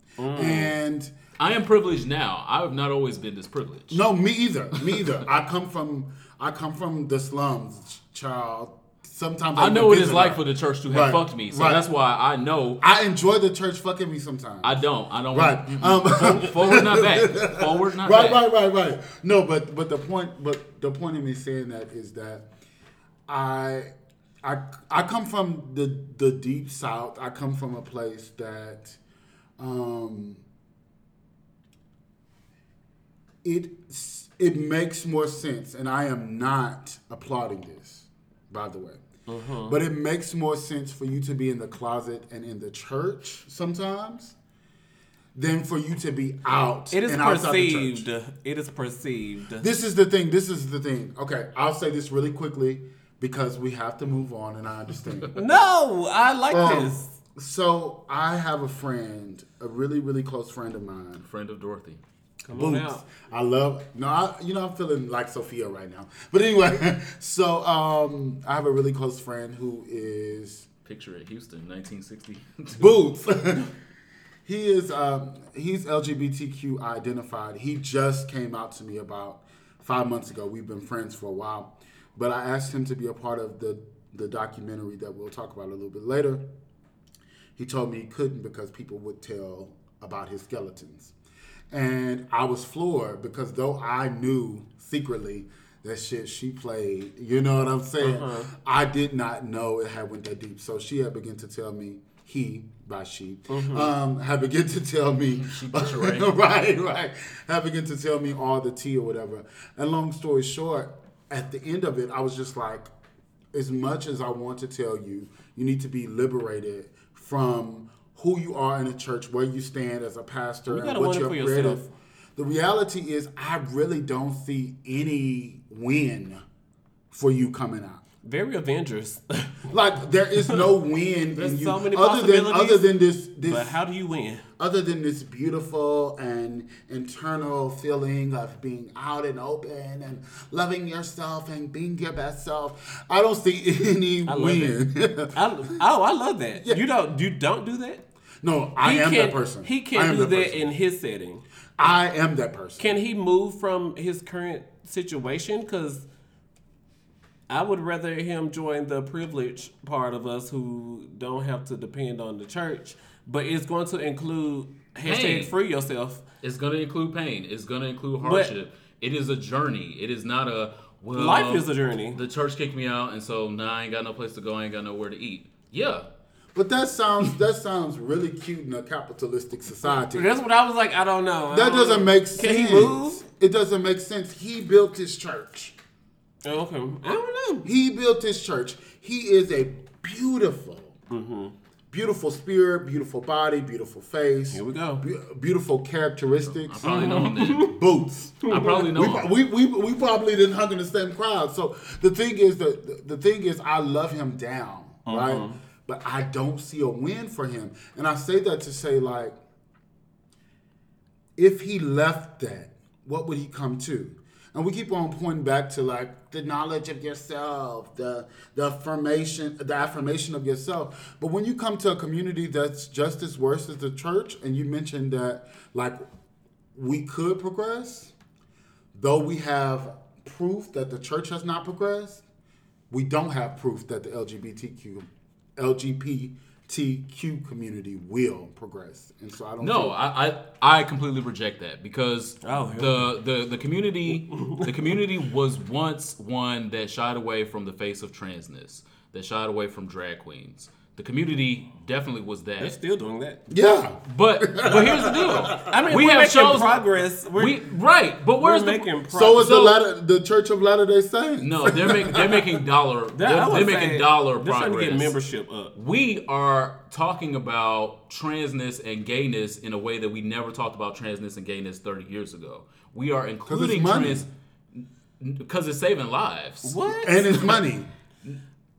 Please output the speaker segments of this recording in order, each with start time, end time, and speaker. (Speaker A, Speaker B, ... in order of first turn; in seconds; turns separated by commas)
Speaker A: 0.2-0.7, Speaker B: 0.3-1.1, Speaker C: 1.4-4.0, Speaker B: 3.9-11.9, Speaker C: 9.5-12.8, Speaker B: 12.8-14.8, Speaker C: 14.6-18.4, Speaker B: 15.3-22.5, Speaker B: 23.3-23.9, Speaker B: 24.4-29.0, Speaker B: 29.6-30.4, Speaker B: 33.4-39.0, Speaker A: 39.3-39.8, Speaker B: 39.7-44.4, Speaker B: 45.4-48.1, Speaker A: 46.9-49.7, Speaker B: 49.6-55.4, Speaker A: 55.4-57.2, Speaker B: 56.5-61.2, Speaker C: 61.2-62.0, Speaker A: 62.5-63.1, Speaker B: 62.5-70.7, Speaker C: 70.9-72.9, Speaker B: 72.8-73.7, Speaker B: 74.5-86.4, Speaker B: 87.6-91.1, Speaker B: 91.7-112.9, Speaker A: 98.0-98.5, Speaker A: 103.5-103.9, Speaker C: 105.4-106.4, Speaker B: 113.5-121.8, Speaker A: 120.7-121.9, Speaker B: 122.4-126.4, Speaker B: 127.1-128.0, Speaker A: 128.2-129.7, Speaker B: 129.7-133.8, Speaker A: 131.4-132.8, Speaker A: 133.5-134.4, Speaker B: 134.6-145.4, Speaker A: 144.3-144.8, Speaker A: 145.3-148.0, Speaker B: 148.4-150.7, Speaker A: 148.8-151.4, Speaker B: 151.8-153.0, Speaker A: 152.8-156.1, Speaker A: 157.5-166.2, Speaker C: 165.0-165.5, Speaker C: 166.4-176.1, Speaker A: 168.2-168.5, Speaker A: 171.1-172.2, Speaker B: 176.6-180.4, Speaker A: 180.1-183.2, Speaker B: 181.5-185.8, Speaker A: 186.4-187.7, Speaker B: 187.6-191.0, Speaker A: 191.1-191.5, Speaker B: 191.9-209.4, Speaker A: 194.5-195.0, Speaker C: 196.4-197.7, Speaker A: 196.8-197.7, Speaker C: 198.5-199.3, Speaker A: 198.5-198.9, Speaker A: 205.1-205.6, Speaker B: 211.4-226.0, Speaker B: 226.8-228.2, Speaker B: 228.9-232.2, Speaker B: 232.9-240.0, Speaker C: 239.6-252.8, Speaker A: 242.4-243.1, Speaker A: 244.3-244.7, Speaker A: 252.6-253.4, Speaker B: 253.5-255.8, Speaker C: 254.1-256.8, Speaker A: 255.6-257.7, Speaker C: 257.4-258.9, Speaker A: 258.4-259.8, Speaker B: 259.1-262.5, Speaker C: 261.4-265.2, Speaker A: 263.1-265.7, Speaker C: 265.7-276.8, Speaker B: 273.5-274.3, Speaker A: 276.6-277.5, Speaker B: 276.9-277.9